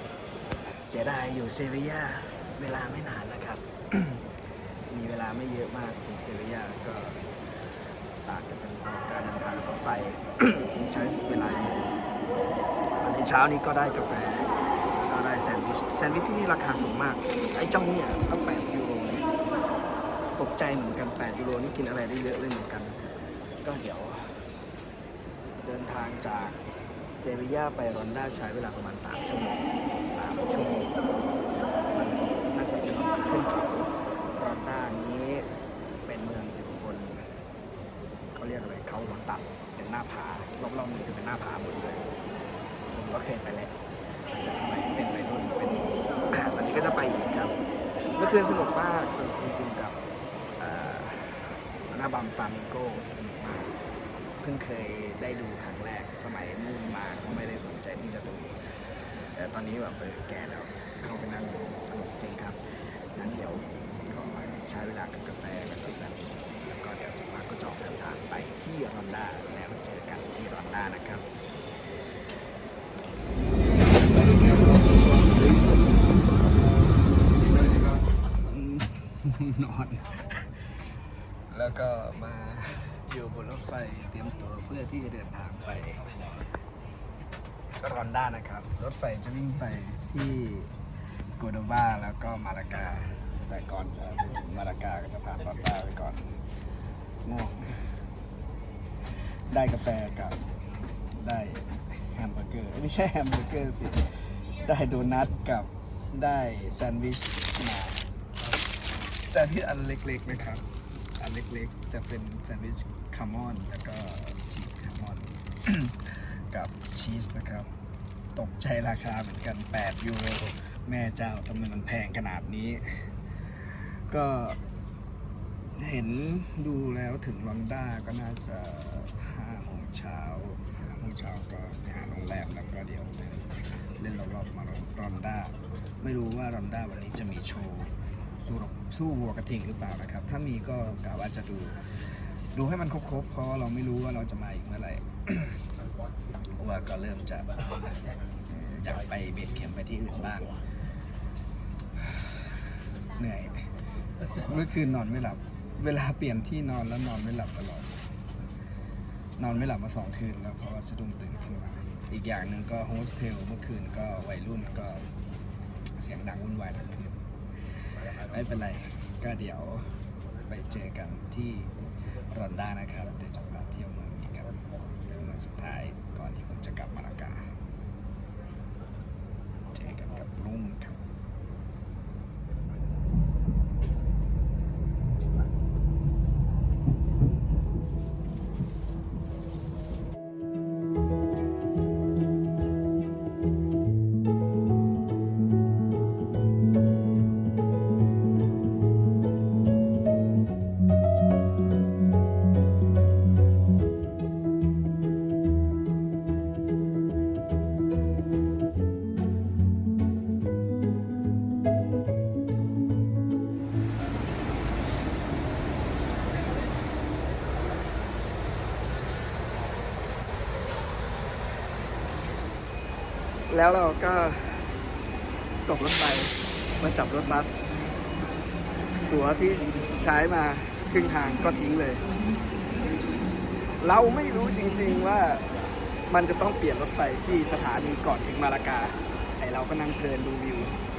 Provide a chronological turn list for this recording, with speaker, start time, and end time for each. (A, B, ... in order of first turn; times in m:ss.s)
0:00.6-0:04.3 A
0:04.9-0:07.2 A
0:08.2-0:12.0 A
0:13.0-0:14.5 A
0:15.0-0:19.3 A
0:20.4-0:23.0 A
0:23.6-0:24.4 A
0:25.6-0:26.6 A
0:27.2-0:31.0 A
0:31.7-0:35.5 A
0:36.0-0:37.3 A
0:38.3-0:42.1 A
0:42.9-0:50.0 A
0:50.6-0:53.8 A
0:54.4-0:58.8 A
0:59.3-1:11.3 A
1:14.0-1:16.1 A
1:18.3-1:20.6 A
1:21.5-1:26.5 A
1:27.8-1:30.7 A
1:31.4-1:36.4 A
1:37.2-1:37.8 A
1:39.5-1:40.4 A
1:41.0-1:48.1 A
1:49.0-1:57.7 A
1:58.4-2:04.6 A
2:05.7-2:25.6 A
2:26.5-2:27.6 A
2:28.4-2:30.6 A
2:33.1-2:38.0 A
2:39.4-2:45.1 A
2:46.0-2:47.2 A
2:47.9-2:57.5 A
2:59.7-3:01.0 A
3:43.5-3:44.7 A
3:45.6-3:47.6 A
3:49.1-3:52.0 A
3:53.7-3:55.5 A
3:56.1-4:00.8 A